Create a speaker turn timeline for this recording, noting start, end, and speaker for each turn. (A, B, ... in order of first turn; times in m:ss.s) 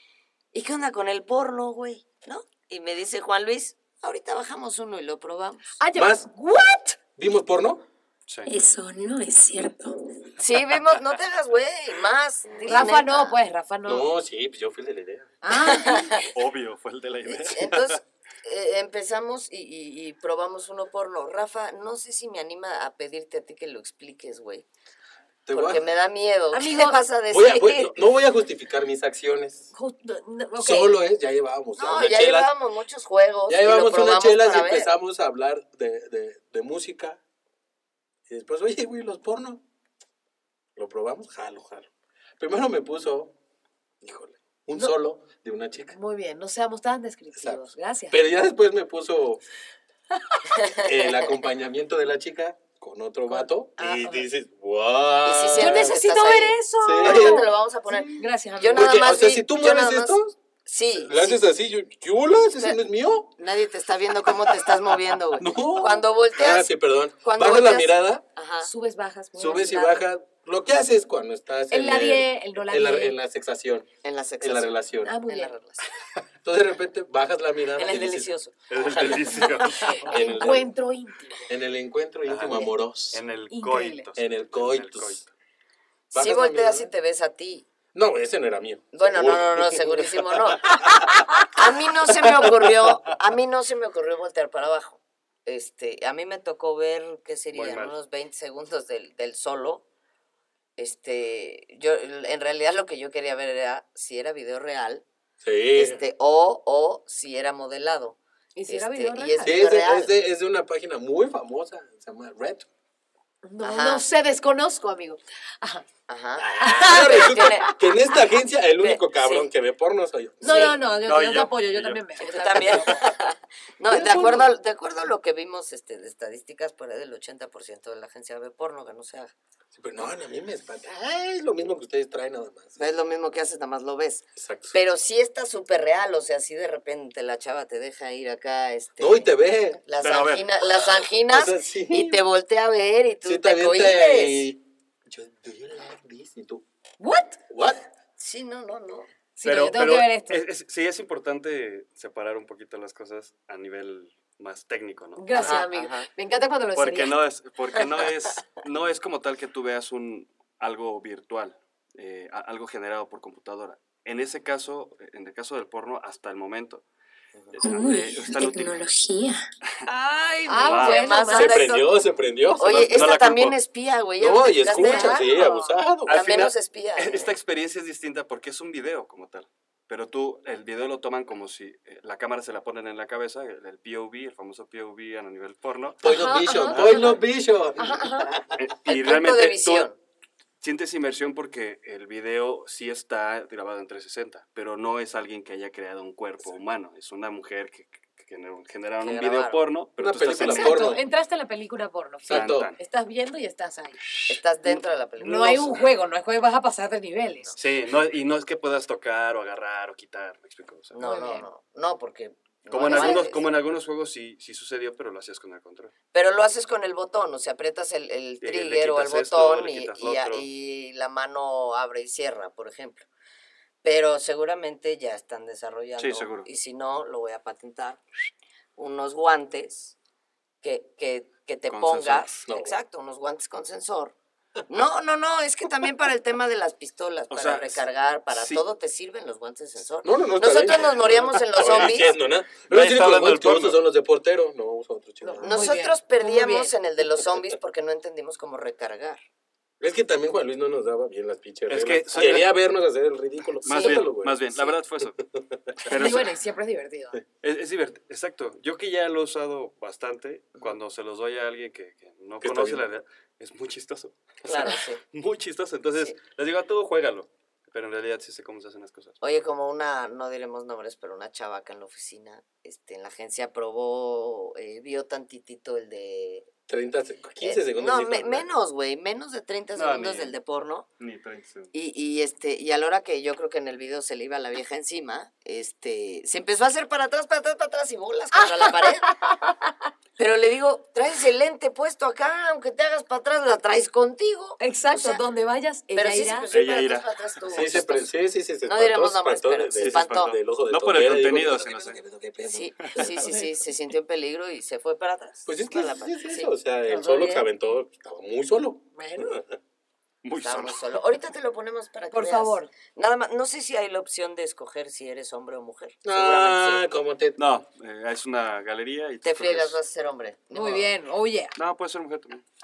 0:00.5-0:05.7 A
0:05.8-0:07.0 B
0:05.9-0:06.3 C
0:07.2-0:07.8 C
0:08.4-0:10.4 D
0:10.4-0:13.4 A
0:12.5-0:12.8 C
0:12.6-0:14.1 B
0:13.8-0:15.3 C
0:15.4-0:16.3 B
0:15.6-0:16.2 A
0:16.3-0:18.0 E
0:17.2-0:24.6 A
0:25.4-0:25.8 C
0:25.5-0:27.9 A
0:26.5-0:27.0 B
0:27.3-0:29.7 C
0:29.7-0:31.0 B
0:30.6-0:32.5 C
0:31.8-0:34.9 A
0:33.5-0:37.2 C
0:38.3-0:39.6 C
0:40.8-0:43.4 C
0:44.0-0:46.0 C
0:45.9-0:48.2 B
0:47.3-0:49.4 C
0:50.5-0:51.2 A
0:50.8-0:56.0 C
0:53.3-0:54.3 B
0:55.2-1:01.4 A
0:55.6-0:57.5 B
0:56.8-1:00.4 C
0:58.2-0:59.0 B
1:00.9-1:03.4 C
1:03.4-1:06.7 A
1:04.2-1:08.2 C
1:07.2-1:08.7 A
1:08.6-1:10.0 B
1:09.4-1:13.9 C
1:11.7-1:13.2 B
1:14.0-1:15.9 A
1:14.4-1:15.1 C
1:15.0-1:15.5 B
1:16.4-1:20.7 C
1:17.8-1:18.5 A
1:18.7-1:20.1 E
1:19.7-1:20.5 A
1:19.9-1:21.5 B
1:21.5-1:23.2 C
1:22.3-1:25.3 E
1:23.5-1:24.0 B
1:24.2-1:25.2 C
1:26.1-1:26.9 C
1:26.1-1:27.6 A
1:27.9-1:31.2 C
1:28.9-1:30.8 A
1:31.5-1:39.8 A
1:32.4-1:32.7 C
1:37.5-1:38.0 E
1:40.8-1:45.0 A
1:45.4-1:46.0 C
1:45.8-1:50.1 A
1:48.5-1:49.6 B
1:49.4-1:52.7 C
1:53.4-1:55.8 B
1:53.6-1:54.0 A
1:56.1-1:57.7 A
1:56.4-2:00.8 C
1:56.6-1:57.9 B
1:58.8-1:59.5 A
2:00.4-2:03.1 B
2:00.4-2:00.8 A
2:01.0-2:02.0 E
2:02.2-2:09.3 A
2:03.8-2:04.5 C
2:09.7-2:13.0 C
2:12.8-2:19.3 A
2:14.4-2:14.8 C
2:19.0-2:19.8 C
2:19.8-2:24.5 A
2:20.0-2:20.5 E
2:21.3-2:22.2 C
2:23.2-2:26.6 C
2:27.0-2:27.4 B
2:27.5-2:27.8 C
2:28.2-2:29.1 A
2:29.4-2:30.4 B
2:29.4-2:35.6 E
2:35.2-2:37.2 B
2:35.3-2:36.1 A
2:36.8-2:46.8 E
2:37.8-2:38.0 A
2:47.5-2:48.8 E
2:47.6-2:49.4 D
2:49.9-2:51.8 A
2:50.4-2:51.8 B
2:50.6-2:51.2 E
2:51.3-2:53.2 C
2:52.6-2:55.3 A
2:52.6-2:53.6 E
2:54.2-2:56.2 C
2:54.6-2:55.8 B
2:56.1-3:06.0 E
2:56.1-2:57.3 A
3:06.0-3:08.6 C
3:06.0-3:07.2 B
3:06.6-3:07.2 E
3:07.8-3:08.3 B
3:08.6-3:09.9 E
3:08.8-3:10.0 A
3:10.6-3:21.0 E
3:19.0-3:19.6 A
3:20.0-3:21.0 C
3:20.4-3:24.0 B
3:22.2-3:22.7 C
3:22.3-3:22.8 E
3:24.1-3:25.6 E
3:24.3-3:25.8 A
3:25.2-3:27.5 B
3:27.6-3:31.0 E
3:30.9-3:33.4 A
3:31.0-3:31.5 B
3:32.7-3:35.9 E
3:32.8-3:33.2 B
3:36.1-3:43.0 A
3:38.4-3:40.4 E
3:43.8-3:48.0 A
3:46.0-3:46.5 E
3:48.8-3:49.9 A
3:50.6-3:54.1 A
3:51.7-3:52.4 E
3:52.4-3:52.8 C
3:54.7-4:02.1 A
3:57.3-3:58.6 E
4:00.0-4:05.7 C
4:00.9-4:02.0 E
4:02.6-4:03.8 E
4:05.2-4:06.7 B
4:05.4-4:09.2 A
4:09.8-4:14.5 C
4:11.7-4:12.6 E
4:13.6-4:15.2 E
4:15.2-4:16.1 C
4:15.8-4:16.4 E
4:15.9-4:17.2 B
4:17.4-4:29.2 E
4:22.4-4:22.8 C
4:24.4-4:25.0 A
4:29.2-4:36.5 A
4:36.7-4:38.5 C
4:37.4-4:40.9 A
4:39.7-4:40.4 E
4:41.0-4:41.7 E
4:41.7-4:49.1 A
4:48.3-4:49.9 B
4:50.2-4:55.2 A
4:54.6-4:56.5 B
4:55.9-4:58.1 A
4:56.5-4:57.9 E
4:57.5-5:03.3 C
4:58.7-5:00.3 A
4:59.7-5:02.0 E
5:02.5-5:06.5 A
5:03.2-5:03.5 B
5:05.4-5:09.5 C
5:06.8-5:07.5 B
5:08.9-5:09.4 B
5:10.2-5:10.8 E
5:10.3-5:16.8 A
5:12.1-5:12.7 B
5:16.0-5:17.4 C
5:17.4-5:19.8 E
5:19.2-5:20.9 A
5:20.5-5:21.5 B
5:21.6-5:22.4 E